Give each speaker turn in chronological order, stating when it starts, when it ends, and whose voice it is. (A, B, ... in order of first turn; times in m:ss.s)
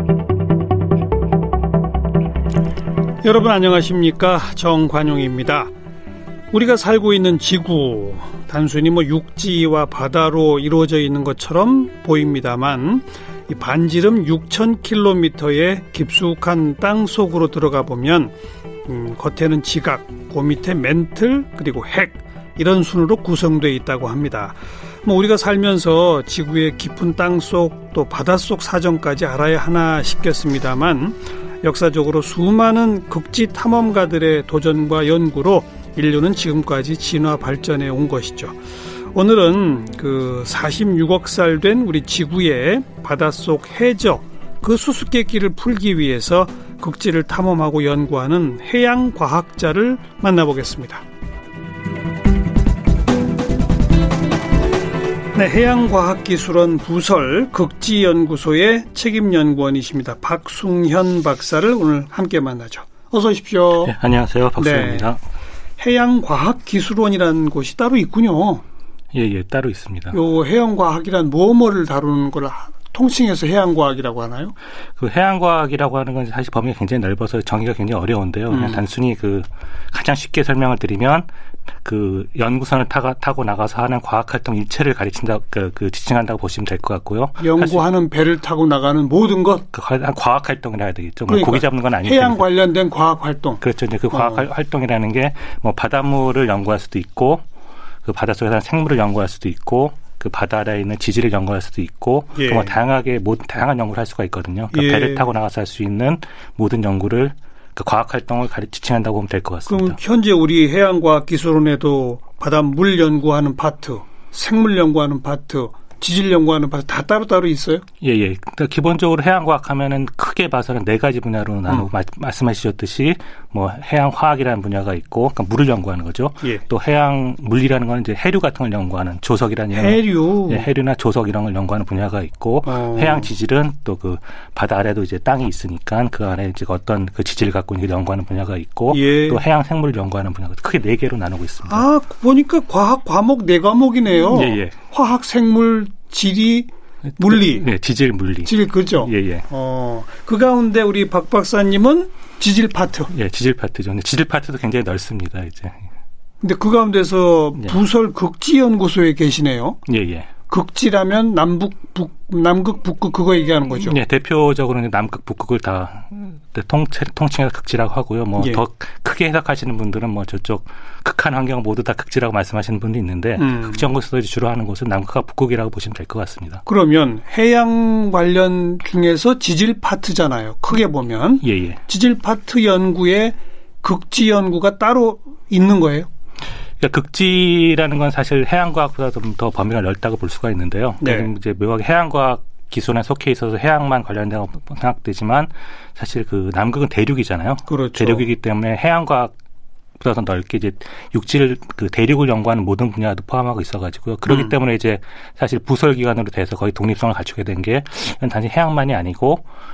0:03.2-0:05.7 A
0:06.5-0:18.3 A
0:18.9-0:38.6 A
0:39.1-0:51.0 A
0:55.3-1:03.9 A
1:03.8-1:05.2 B
1:04.6-1:05.1 A
1:05.8-1:08.6 A
1:09.1-1:10.2 B
1:10.1-1:14.6 A
1:15.0-1:21.3 B
1:18.5-1:18.8 A
1:21.8-1:27.8 B
1:27.4-1:29.6 A
1:29.7-1:32.4 B
1:31.3-1:34.4 A
1:33.6-1:37.4 B
1:38.0-1:50.0 B
1:42.3-1:42.7 A
1:44.7-1:45.3 A
1:49.7-1:57.8 A
1:58.0-2:21.8 B
2:09.7-2:10.7 A
2:12.7-2:13.3 A
2:18.9-2:19.4 A
2:21.7-2:27.7 A
2:24.3-2:24.8 B
2:27.2-2:29.4 B
2:28.4-2:33.1 A
2:33.1-2:35.8 B
2:36.4-2:39.8 A
2:39.8-2:40.3 B
2:40.5-2:44.0 A
2:43.8-2:56.6 B
2:53.4-2:53.8 A
2:56.7-3:06.1 A
3:01.4-3:01.8 B
3:06.8-3:19.3 B
3:11.0-3:11.3 A
3:17.7-3:18.2 A
3:20.0-3:29.4 B